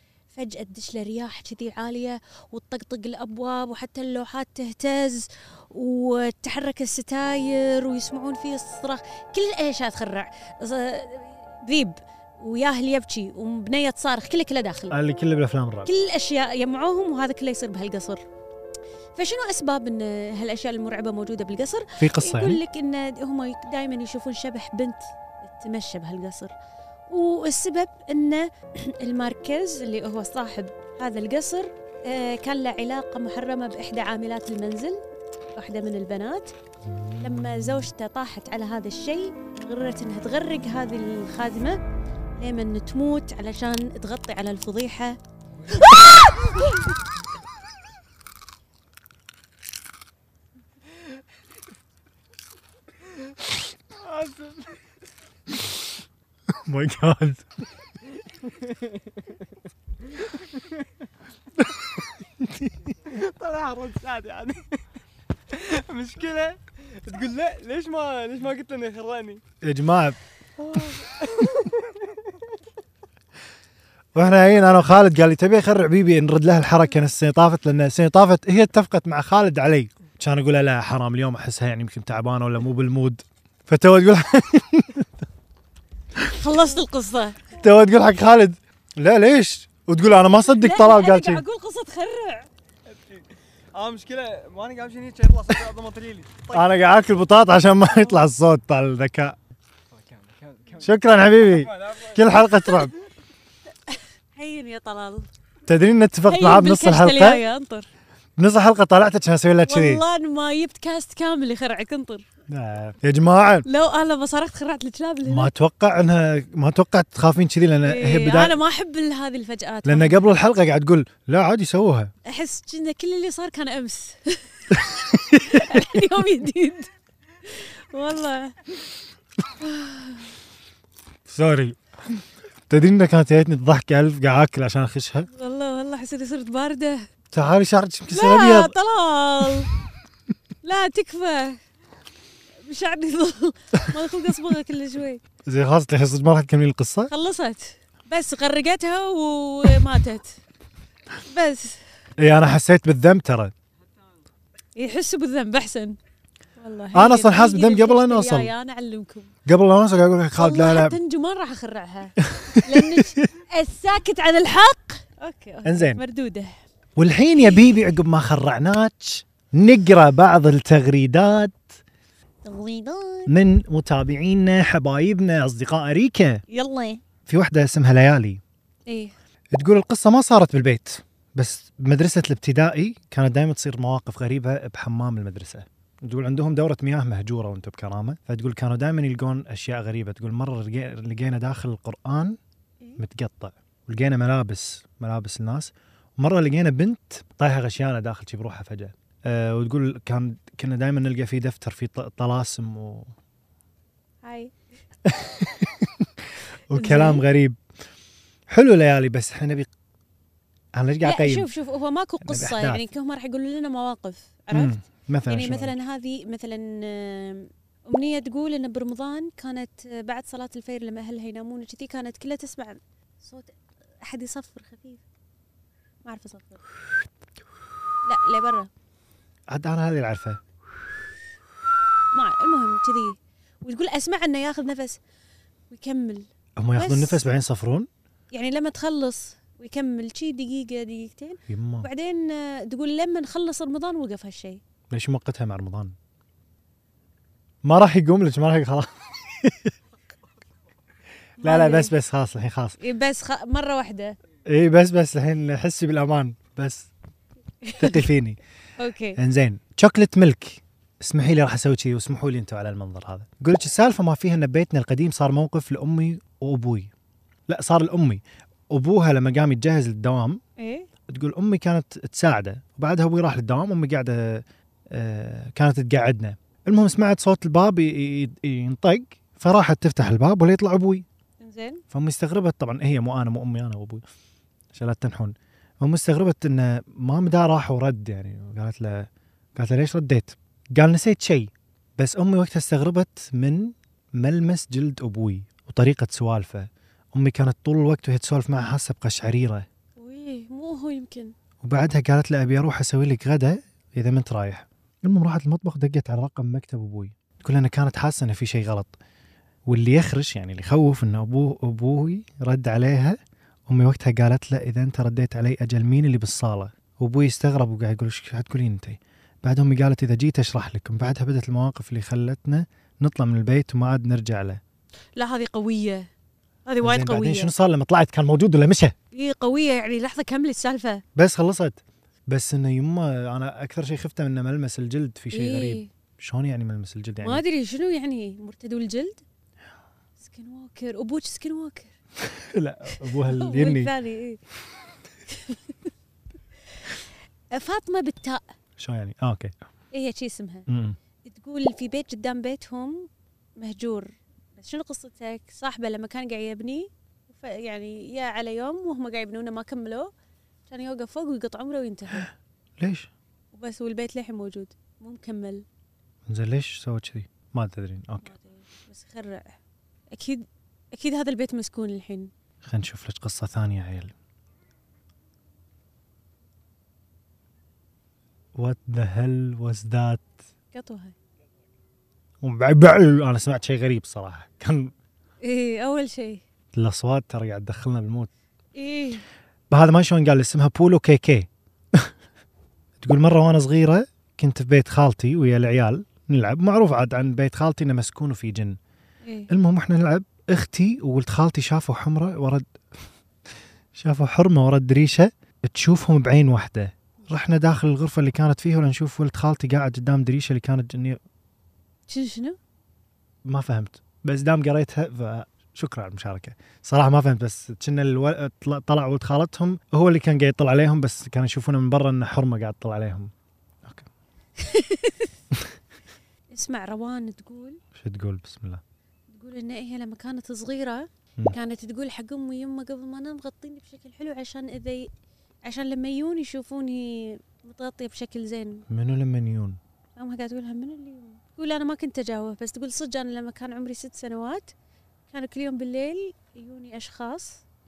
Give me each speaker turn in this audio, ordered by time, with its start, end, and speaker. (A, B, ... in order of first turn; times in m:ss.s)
0:00.3-0:15.0 A
0:14.9-0:15.9 B
0:15.8-0:18.2 A
0:19.2-0:26.5 A
0:22.0-0:22.6 B
0:27.1-0:35.0 A
0:35.6-0:36.5 A
0:36.8-0:37.9 B
0:37.2-0:41.8 A
0:42.4-0:45.2 A
0:45.7-0:46.8 A
0:53.9-0:54.8 C
0:56.5-0:57.5 B
0:58.3-0:59.4 C
1:00.1-1:00.6 C
1:02.4-1:02.8 B
1:02.9-1:04.8 C
1:05.5-1:09.4 C
1:09.6-1:10.2 B
1:10.6-1:12.3 C
1:14.1-1:25.1 B
1:26.3-1:27.5 A
1:27.5-1:31.4 B
1:30.4-1:32.5 A
1:32.9-1:36.7 C
1:36.5-1:39.4 B
1:39.9-1:42.9 C
1:40.8-1:42.9 B
1:43.9-1:45.3 A
1:45.7-1:47.4 B
1:46.3-1:47.9 A
1:48.4-1:50.0 B
1:49.6-1:52.2 A
1:52.5-1:53.7 B
1:53.6-1:55.5 A
1:55.2-1:58.6 B
1:57.8-2:00.2 A
1:59.8-2:02.1 B
2:02.2-2:06.9 A
2:04.9-2:06.0 B
2:07.4-2:08.6 A
2:09.6-2:10.3 A
2:11.2-2:15.3 B
2:15.3-2:17.1 A
2:17.3-2:18.7 B
2:18.1-2:19.7 A
2:20.6-2:21.6 A
2:22.6-2:25.2 A
2:25.4-2:27.1 B
2:27.1-2:30.4 A
2:31.2-2:31.8 A
2:32.2-2:33.5 B
2:34.8-2:36.0 A
2:36.6-2:39.3 A
2:36.9-2:38.5 B
2:39.4-2:41.0 B
2:40.4-2:46.5 A
2:42.2-2:43.2 B
2:45.6-2:46.0 B
2:47.0-2:51.8 B
2:52.4-2:53.3 A
2:53.3-2:56.4 B
2:56.5-2:57.0 A
2:57.2-2:58.4 B
2:58.9-2:59.1 A
2:59.5-3:12.4 B
3:13.0-3:23.1 B
3:24.2-3:24.5 A
3:25.0-3:27.6 B
3:26.7-3:27.2 A
3:28.5-3:29.7 B
3:30.7-3:31.5 B
3:31.0-3:45.0 A
3:32.2-3:32.8 B
3:34.5-3:35.7 B
3:46.0-3:46.6 A
3:48.0-3:48.7 A
3:49.5-3:50.4 B
3:52.1-3:55.0 A
3:55.7-3:57.2 A
3:56.6-3:57.9 B
3:58.3-4:04.6 A
4:01.5-4:01.9 B
4:04.9-4:05.9 B
4:07.6-4:09.7 B
4:11.4-4:12.8 B
4:11.4-4:11.9 A
4:12.8-4:14.2 A
4:14.4-4:16.9 B
4:17.6-4:18.0 A
4:17.8-4:18.4 B
4:18.8-4:19.2 A
4:19.2-4:26.9 B
4:27.5-4:30.4 B
4:30.6-4:30.9 A
4:31.1-4:41.0 B
4:41.4-4:41.8 A
4:41.9-4:44.0 B
4:44.7-4:59.6 B
5:00.0-5:01.3 A
5:01.6-5:09.0 B
5:09.6-5:24.6 B
5:25.2-5:26.1 A
5:26.6-5:27.5 A
5:26.8-5:28.9 B
5:29.1-5:31.0 A
5:31.2-5:37.4 B
5:35.3-5:35.9 A
5:37.2-5:39.2 A
5:40.2-5:41.9 A
5:42.2-5:43.9 B
5:42.9-5:44.4 A
5:45.3-5:45.8 A
5:47.5-5:48.4 A
5:48.8-5:49.5 B
5:49.9-5:50.7 A
5:50.7-5:51.0 B
5:51.2-6:00.1 A
6:00.7-6:02.3 A
6:02.8-6:03.1 B
6:03.5-6:05.6 A
6:06.3-6:08.3 B
6:08.2-6:09.6 A
6:10.1-6:12.3 A
6:12.6-6:14.1 B
6:18.5-6:20.3 B
6:20.7-6:21.1 A
6:22.4-6:24.9 B
6:25.4-6:26.4 A
6:26.7-6:28.3 B
6:28.8-6:29.2 A
6:29.7-6:32.1 B
6:33.0-6:38.8 B
6:39.2-6:39.5 A
6:39.5-6:42.7 B
6:43.9-6:51.2 B
6:52.1-6:52.6 A
6:53.4-7:03.3 B
7:03.8-7:04.1 B
7:04.6-7:05.3 A
7:06.5-7:07.8 A
7:07.9-7:08.8 B
7:09.3-7:15.1 A
7:15.6-7:18.8 A
7:18.9-7:19.8 B
7:20.2-7:24.7 A
7:25.3-7:27.6 A